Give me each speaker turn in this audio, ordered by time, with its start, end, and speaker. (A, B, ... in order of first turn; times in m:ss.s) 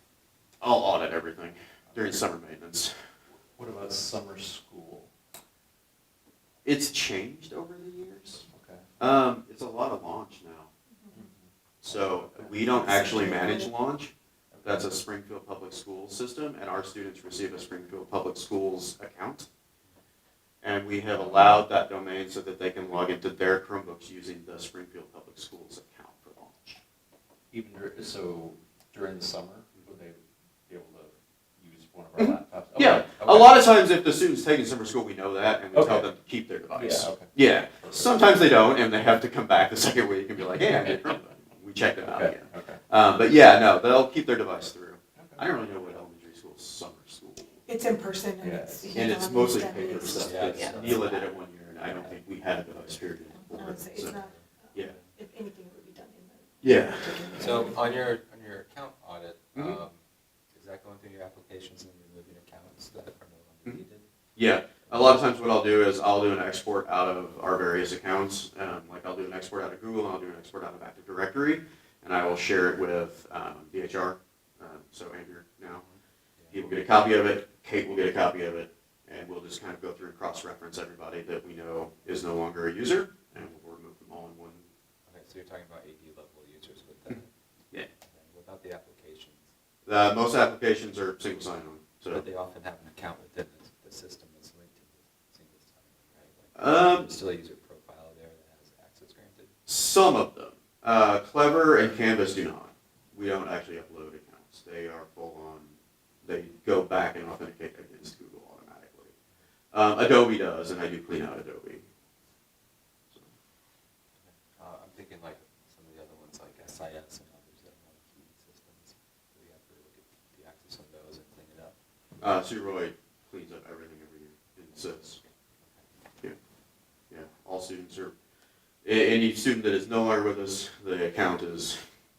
0:00.6-0:02.9 A
0:03.6-0:05.1 B
0:06.6-0:08.4 A
0:08.5-0:08.8 B
0:09.0-0:10.7 A
0:11.1-0:13.0 B
0:11.8-0:14.1 A
0:12.8-0:13.7 C
0:14.5-0:14.9 B
0:14.6-0:19.5 A
0:20.6-0:26.8 A
0:27.5-0:33.6 B
0:32.2-0:47.6 A
0:35.7-0:36.1 B
0:36.7-0:38.2 B
0:42.0-0:42.8 B
0:47.6-0:50.9 C
0:48.4-0:49.1 B
0:48.9-0:54.2 A
0:49.6-0:50.3 B
0:50.2-0:51.3 D
0:51.9-0:52.2 D
0:53.5-0:54.3 C
0:54.0-0:55.1 D
0:55.1-0:58.0 C
0:56.6-0:57.4 A
0:57.4-1:04.0 D
0:59.5-0:59.8 A
1:04.4-1:15.8 A
1:04.8-1:05.2 D
1:15.7-1:16.5 D
1:16.5-1:24.6 A
1:25.1-1:27.3 D
1:27.9-1:29.5 D
1:29.8-1:32.2 A
1:32.1-1:39.5 D
1:36.6-1:37.2 A
1:39.6-1:49.1 A
1:49.7-1:51.8 A
1:54.6-2:01.7 D
2:02.2-2:05.2 A
2:07.1-2:08.1 A
2:08.8-2:11.8 A